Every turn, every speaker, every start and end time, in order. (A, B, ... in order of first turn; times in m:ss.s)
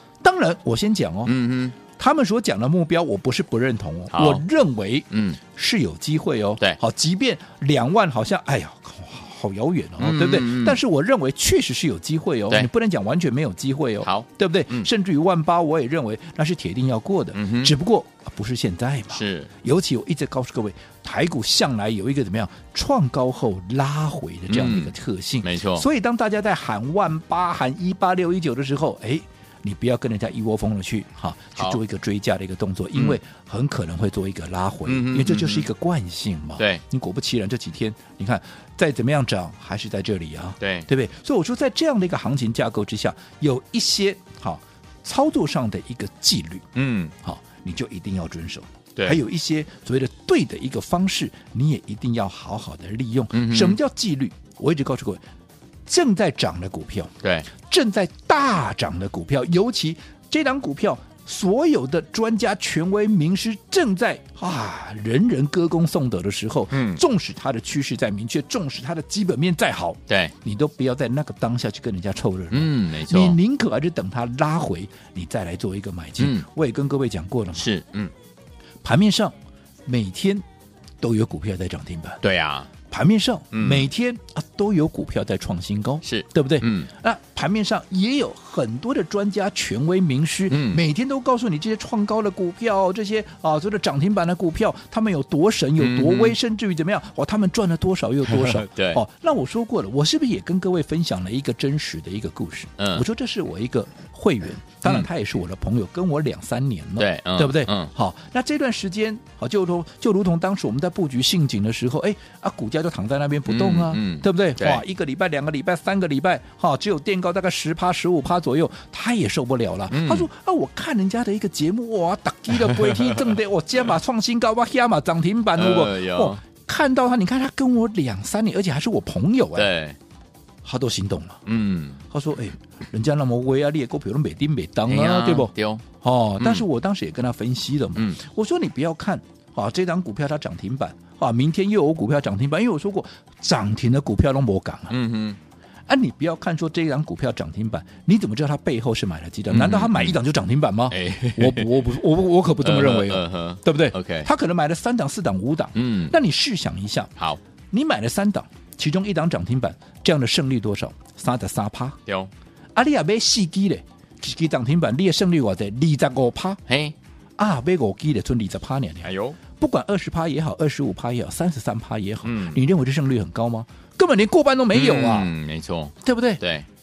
0:00.2-0:01.4 A
0:01.2-0:01.8 B
0:01.9-0:46.7 A
0:04.1-0:04.4 B
0:05.1-0:05.4 B
0:10.0-0:10.8 B
0:14.0-0:14.9 B
0:17.3-0:17.8 B
0:19.1-0:19.5 B
0:24.5-0:25.9 B
0:34.9-0:35.7 B
0:40.6-0:40.9 B
0:46.8-0:47.1 B
0:47.2-0:55.2 A
0:53.3-0:53.8 B
0:55.9-1:17.7 A
0:57.2-0:57.5 B
1:06.7-1:07.0 B
1:10.1-1:10.3 B
1:12.5-1:13.4 B
1:16.2-1:16.5 B
1:17.6-1:18.1 B
1:18.8-1:19.4 A
1:19.9-1:20.4 A
1:21.0-1:22.2 A
1:22.2-1:22.7 B
1:22.9-2:09.7 A
1:23.5-1:23.9 B
1:26.0-1:26.9 B
1:30.5-1:30.8 B
1:35.8-1:36.4 B
1:38.3-1:39.0 B
1:42.8-1:43.0 B
1:47.0-1:47.9 B
1:53.5-1:54.8 B
1:59.9-2:00.3 B
2:02.8-2:03.2 B
2:05.6-2:06.4 B
2:09.6-2:10.0 B
2:10.6-2:11.4 A
2:11.5-2:12.0 B
2:12.1-2:25.0 A
2:14.8-2:15.8 B
2:16.4-2:16.7 B
2:24.9-2:25.4 B
2:25.9-2:37.1 A
2:29.5-2:30.2 B
2:30.9-2:31.9 B
2:32.6-2:34.3 B
2:35.8-2:36.2 B
2:37.7-2:42.0 A
2:42.1-2:42.3 B
2:42.8-2:46.6 A
2:46.7-2:47.0 B
2:47.4-2:55.3 A
2:49.0-2:49.4 B
2:52.2-2:52.6 B
2:54.7-2:56.7 B
2:56.0-2:56.4 A